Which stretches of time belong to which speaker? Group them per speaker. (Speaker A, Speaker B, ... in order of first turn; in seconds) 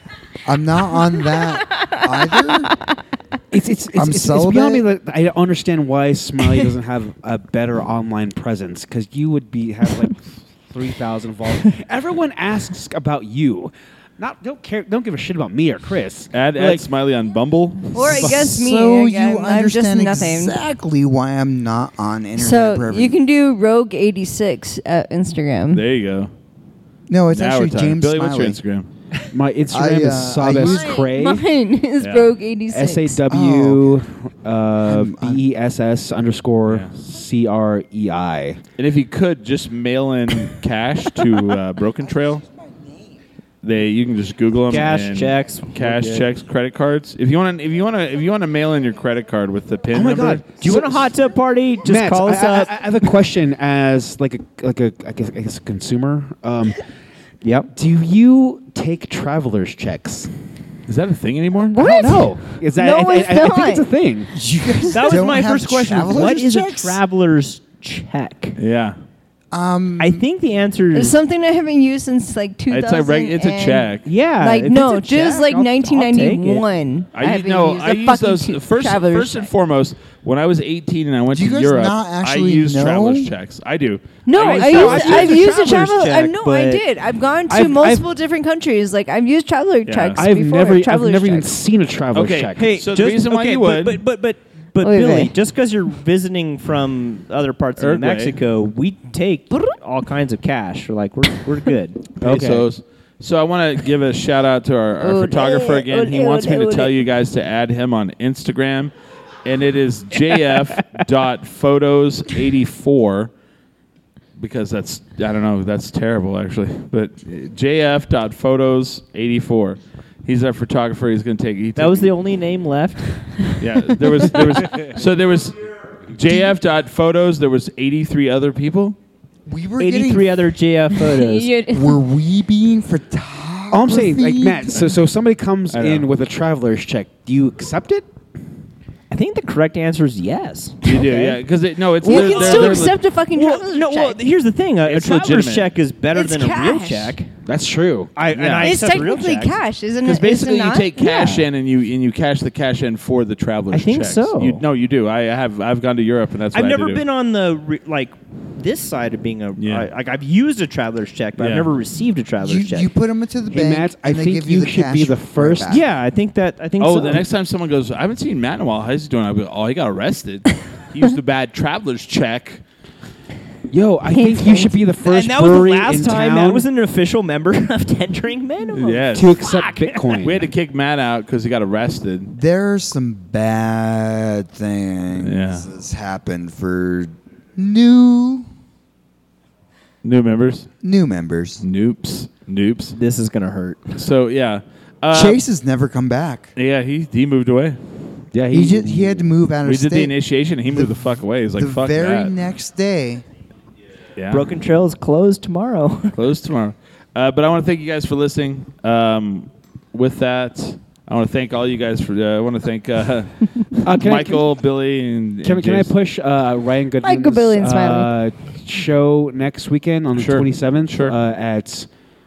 Speaker A: 0.4-2.7, 3.9-4.8, 18.1-23.2, 27.1-28.6, 29.7-30.9, 33.3-33.9, 34.8-35.4, 42.4-43.1, 64.3-67.0, 69.5-70.2, 81.3-83.3, 129.4-130.4, 131.7-134.9, 162.4-165.8, 182.3-188.5, 190.8-191.6, 195.1-196.5, 198.5-203.2
Speaker B: 3.5-16.9, 29.3-31.4, 32.7-38.6, 49.9-51.1, 51.8-56.8, 57.7-60.3, 61.8-64.3, 87.5-88.0, 90.2-92.8, 102.2-102.7, 133.7-138.1, 147.4-148.1, 163.5-165.8, 173.7-176.7, 179.1-180.5, 198.3-199.3, 213.8-214.4, 215.4-221.9
Speaker C: 16.3-18.2, 25.7-26.3, 27.3-28.9, 32.0-32.3, 36.6-36.9, 38.8-42.4, 43.6-51.0, 60.9-61.8, 68.6-69.0, 72.7-74.1, 77.1-85.5, 89.9-90.2, 92.1-94.0, 97.8-98.3, 102.2-108.9, 109.4-113.3, 114.3-122.1, 123.6-129.0, 135.7-136.1, 140.8-142.9, 144.9-145.7, 148.3-148.8, 150.0-157.0, 159.6-159.9, 161.4-161.7, 166.8-172.6, 178.7-179.4, 180.2-182.3, 185.2-185.7, 190.0-190.7, 191.6-193.0, 193.9-195.4, 196.6-197.8, 199.6-202.3, 204.2-204.4, 206.1-215.9, 220.1-221.1
Speaker D: 17.9-20.6, 22.4-25.8, 30.6-33.2, 61.7-63.9, 70.9-79.5, 84.2-91.5, 94.8-95.3, 105.0-107.0, 131.1-132.0, 142.0-144.2, 146.1-147.1, 148.6-151.4, 174.1-174.8, 217.0-218.1
Speaker E: 44.7-46.3, 50.5-52.7, 57.4-57.7, 64.9-68.6, 70.0-71.2, 74.0-76.6, 84.4-86.8, 92.5-102.1, 121.8-123.5, 129.8-131.5, 139.1-141.4, 142.1-147.3, 148.2-149.6, 153.7-154.6, 156.5-162.9, 165.7-167.3, 175.0-180.2, 192.9-194.1, 204.3-206.2